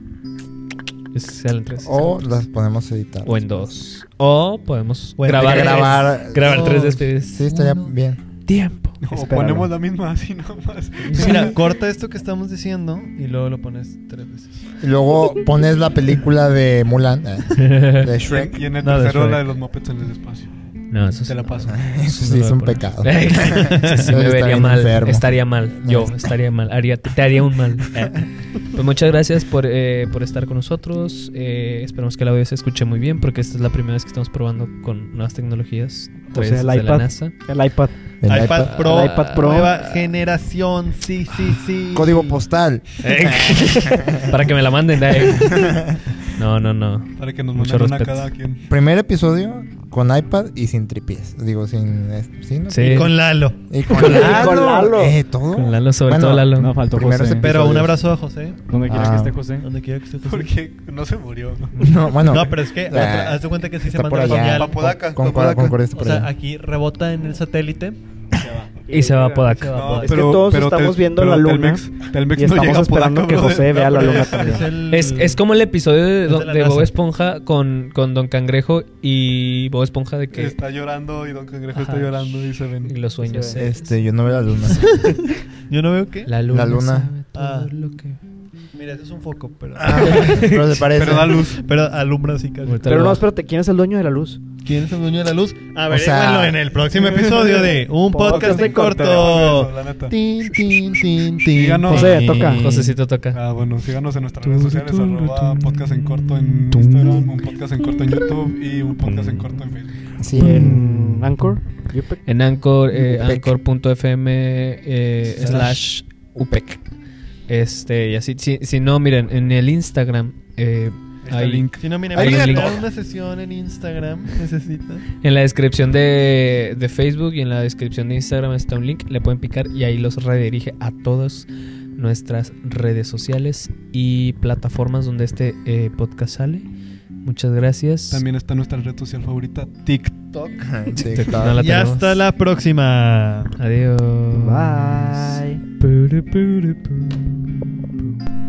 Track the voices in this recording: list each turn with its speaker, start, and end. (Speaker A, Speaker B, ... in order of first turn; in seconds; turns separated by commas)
Speaker A: 1.1-2.1, Speaker B: 1.8-3.7, Speaker A: 3.2-7.4, Speaker C: 5.2-7.9, Speaker B: 5.3-8.2, Speaker A: 8.5-9.0, Speaker D: 9.0-11.6, Speaker E: 9.1-9.7, Speaker A: 11.0-11.5, Speaker C: 11.1-14.7, Speaker B: 14.8-18.6, Speaker A: 17.6-18.1, Speaker D: 18.2-21.9, Speaker C: 18.8-19.5, Speaker A: 20.9-37.3, Speaker B: 21.7-26.3, Speaker E: 36.3-37.9, Speaker B: 38.2-38.8, Speaker C: 38.2-42.4, Speaker A: 38.7-39.9, Speaker E: 38.7-39.7, Speaker B: 41.9-44.4, Speaker A: 43.0-45.8, Speaker B: 45.1-46.1, Speaker A: 46.3-48.3, Speaker D: 47.2-48.6, Speaker B: 48.7-58.0, Speaker A: 52.7-53.1, Speaker C: 52.9-53.6, Speaker E: 53.9-55.1, Speaker A: 53.9-54.7, Speaker A: 55.5-56.7, Speaker F: 56.5-57.8, Speaker C: 57.2-58.6, Speaker F: 58.6-59.7, Speaker B: 58.9-59.4, Speaker C: 59.6-60.5, Speaker D: 60.2-61.8, Speaker B: 61.8-66.3, Speaker C: 61.8-65.2, Speaker D: 64.5-65.8, Speaker C: 65.8-68.7, Speaker E: 68.9-74.7, Speaker A: 68.9-70.1, Speaker C: 69.5-70.4, Speaker D: 69.7-74.7, Speaker C: 74.0-75.4, Speaker A: 74.9-80.5, Speaker C: 76.2-76.9, Speaker D: 80.3-82.9, Speaker A: 81.7-83.9, Speaker E: 83.2-83.8, Speaker B: 83.5-85.0, Speaker C: 84.7-86.3, Speaker A: 86.2-88.2, Speaker B: 86.5-87.1, Speaker C: 87.3-87.7, Speaker C: 88.7-90.5, Speaker B: 89.8-91.5, Speaker A: 89.9-90.9, Speaker D: 90.9-91.7, Speaker C: 91.3-93.1, Speaker A: 92.6-93.2, Speaker E: 92.8-94.4, Speaker C: 94.6-102.9, Speaker B: 95.9-96.6, Speaker D: 97.2-100.1, Speaker E: 98.1-99.5, Speaker D: 101.5-102.5, Speaker E: 101.8-102.6, Speaker A: 102.2-103.4, Speaker D: 103.3-110.1, Speaker A: 104.4-107.4, Speaker A: 108.0-108.3, Speaker A: 109.0-109.6, Speaker B: 110.2-110.8, Speaker E: 110.3-112.2, Speaker A: 110.3-111.5, Speaker A: 112.2-116.8, Speaker B: 112.9-113.6, Speaker D: 115.4-115.8, Speaker A: 117.5-122.8, Speaker D: 121.2-122.8, Speaker C: 121.8-125.1, Speaker A: 125.2-136.7, Speaker A: 137.2-138.2, Speaker D: 138.1-140.8, Speaker B: 140.6-141.6, Speaker A: 140.9-142.3, Speaker C: 141.5-143.6, Speaker A: 143.6-147.7, Speaker E: 144.3-145.6